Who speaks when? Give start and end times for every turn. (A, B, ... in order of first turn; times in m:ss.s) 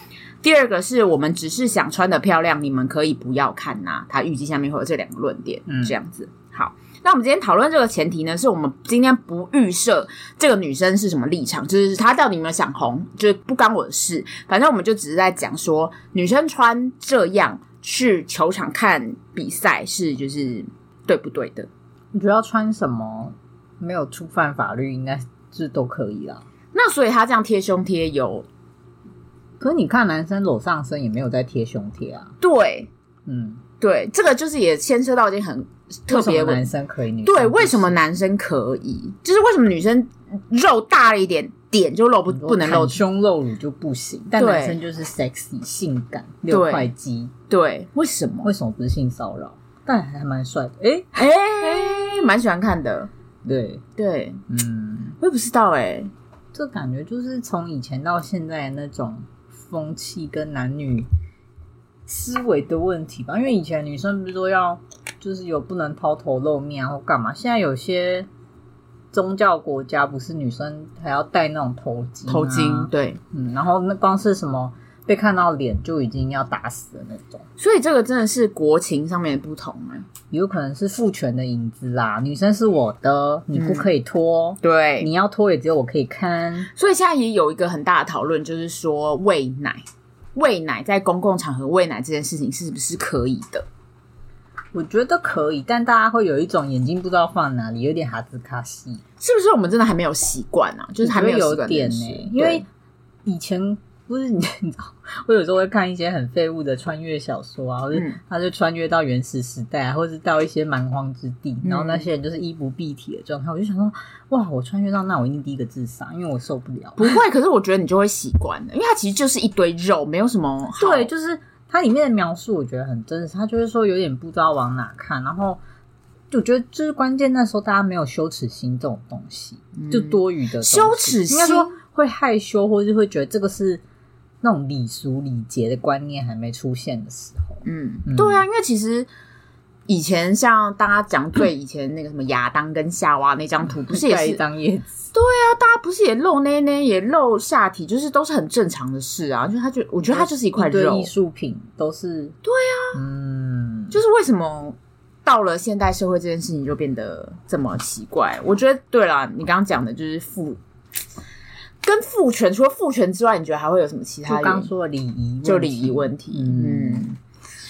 0:00.4-0:21.7 A
0:05.7-0:05.9 B
0:22.1-0:26.4 B
0:26.7-0:28.5 A
0:29.6-0:32.3 B
0:32.4-0:32.9 A
0:33.3-0:33.6 B
0:33.8-0:36.7 A
0:36.1-0:38.0 B
0:37.2-0:43.0 A
0:42.3-0:47.3 B
0:44.4-0:44.8 A
0:46.5-0:46.9 A
0:47.5-0:48.5 A
0:48.4-0:51.2 B
0:51.2-0:53.1 A
0:53.4-0:53.8 B
0:54.0-0:54.4 A
0:54.5-0:55.2 B
0:55.2-0:56.1 A
0:56.5-1:01.1 B
1:02.1-1:08.3 B
1:09.1-1:17.4 B
1:12.3-1:13.2 A
1:17.6-1:20.1 A
1:20.3-1:26.7 B
1:23.5-1:23.9 A
1:24.6-1:25.1 A
1:26.7-1:29.8 A
1:30.3-1:33.6 A
1:34.7-1:39.0 B
1:39.2-1:42.6 A
1:41.0-1:42.6 B
1:43.2-1:57.1 B
1:47.9-1:48.2 A
1:51.6-1:52.1 A
1:57.0-2:01.1 A
2:00.8-2:05.6 B
2:06.3-2:13.8 B
2:09.8-2:11.7 A
2:14.4-2:18.4 B
2:17.6-2:19.1 A
2:19.9-2:24.4 A
2:23.9-2:25.0 B
2:25.1-2:31.1 A
2:30.1-2:32.4 B
2:32.4-2:33.0 A
2:32.9-2:34.0 B
2:33.9-2:40.6 A
2:41.8-2:44.7 A
2:44.3-2:47.1 B
2:45.4-2:47.2 A